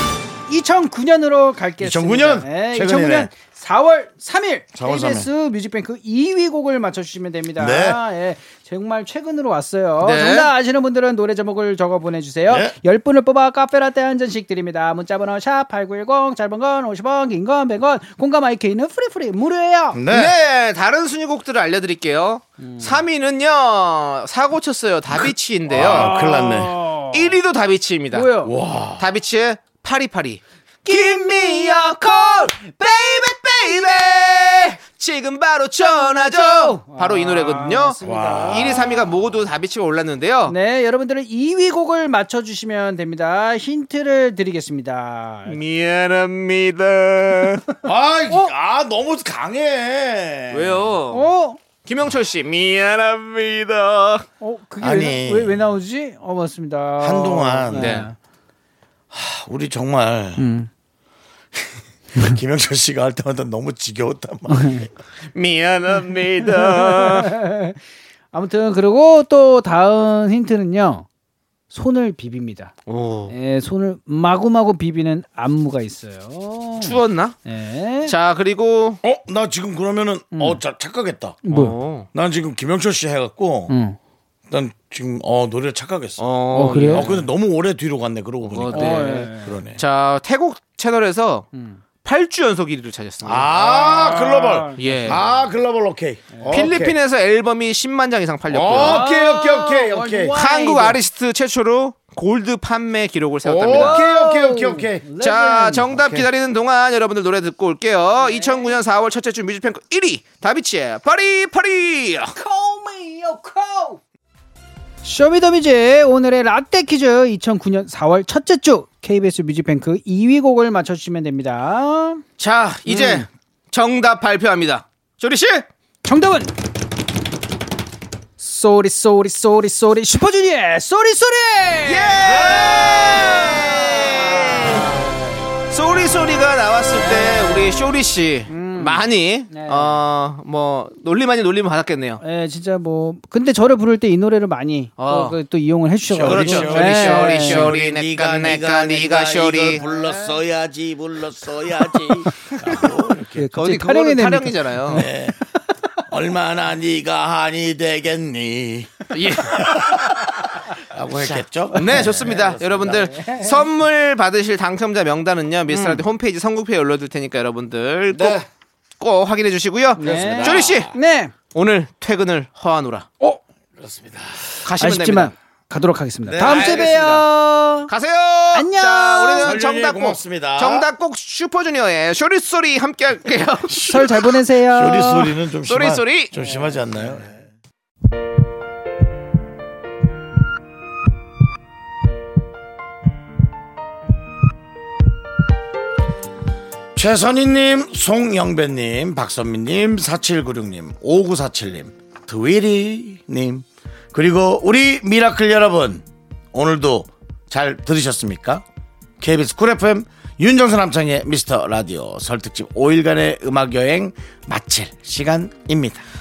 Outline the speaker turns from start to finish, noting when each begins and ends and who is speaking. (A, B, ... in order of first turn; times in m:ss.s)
0:00.5-0:20.0 A
0:01.8-0:03.3 B
0:04.7-0:05.3 B
0:07.6-0:08.0 B
0:10.0-0:10.5 C
0:12.5-0:12.8 B
0:19.9-0:20.3 B
0:20.1-0:26.2 C
0:22.6-0:23.0 A
0:25.7-0:26.8 B
0:25.7-0:27.4 A
0:27.1-0:28.3 C
0:28.1-0:28.5 A
0:28.4-0:29.0 B
0:29.0-0:40.6 C
0:30.9-0:31.9 A
0:35.9-0:39.0 A
0:38.0-0:38.8 B
0:40.5-0:45.6 A
0:45.4-0:47.7 C
0:47.8-0:50.8 B
0:50.5-0:51.3 C
0:51.1-0:51.6 A
0:51.8-0:54.3 C
0:54.4-0:58.2 A
0:54.8-0:55.6 B
0:57.0-0:58.0 B
0:57.7-0:58.1 C
0:59.1-1:00.5 B
1:00.4-1:00.7 A
1:02.2-1:04.9 B
1:04.5-1:04.9 A
1:05.3-1:07.3 C
1:06.5-1:07.8 A
1:08.3-1:11.0 A
1:11.7-1:12.7 A
1:12.9-1:13.4 C
1:13.3-1:18.1 A
1:16.8-1:17.4 C
1:18.0-1:19.0 C
1:19.0-1:21.4 B
1:20.3-1:20.6 A
1:21.4-1:21.8 A
1:21.5-1:22.1 C
1:22.1-1:23.7 B
1:23.7-1:24.0 A
1:24.5-1:29.8 B
1:26.2-1:27.2 C
1:26.5-1:27.2 A
1:28.5-1:31.5 C
1:28.7-1:29.6 A
1:31.5-1:31.8 A
1:32.0-1:33.5 C
1:33.2-1:36.9 B
1:33.7-1:35.2 A
1:34.8-1:35.2 C
1:36.3-1:36.8 A
1:36.5-1:39.1 C
1:38.5-1:40.4 B
1:38.7-1:41.0 A
1:40.3-1:44.0 C
1:43.4-1:45.1 B
1:43.7-1:45.9 A
1:45.2-1:52.3 C
1:45.9-1:46.2 B
1:48.2-1:48.8 A
1:52.3-1:54.0 A
1:55.0-2:02.2 A
2:02.4-2:05.7 C
2:02.9-2:03.2 A
2:06.0-2:06.5 A
2:08.4-2:15.5 A
2:11.8-2:15.0 C
2:15.7-2:22.2 C
2:16.9-2:17.9 A
2:18.5-2:20.0 A
2:22.2-2:27.8 A
2:25.0-2:25.4 C
2:26.1-2:33.5 B
2:26.2-2:29.8 C
2:29.8-2:30.3 A
2:33.3-2:35.2 A
2:33.5-2:35.1 C
2:34.9-2:35.4 B
2:36.1-2:43.1 B
2:39.1-2:39.7 C
2:41.2-2:48.4 C
2:42.9-2:43.6 A
2:45.7-2:46.0 A
2:48.1-2:48.4 B
2:49.0-2:50.9 C
2:50.0-2:51.3 A
2:50.0-2:50.9 B
2:51.5-2:53.1 C
2:53.8-2:54.5 B
2:54.6-2:55.3 C
2:54.8-2:57.9 A
2:56.2-2:57.0 B
2:56.4-2:57.2 C
2:57.9-3:03.8 C
2:58.5-2:59.5 A
2:59.4-3:00.9 B
3:03.7-3:07.5 B
3:03.8-3:05.4 A
3:05.7-3:06.3 C
3:16.9-3:28.6 B
3:29.2-3:36.0 B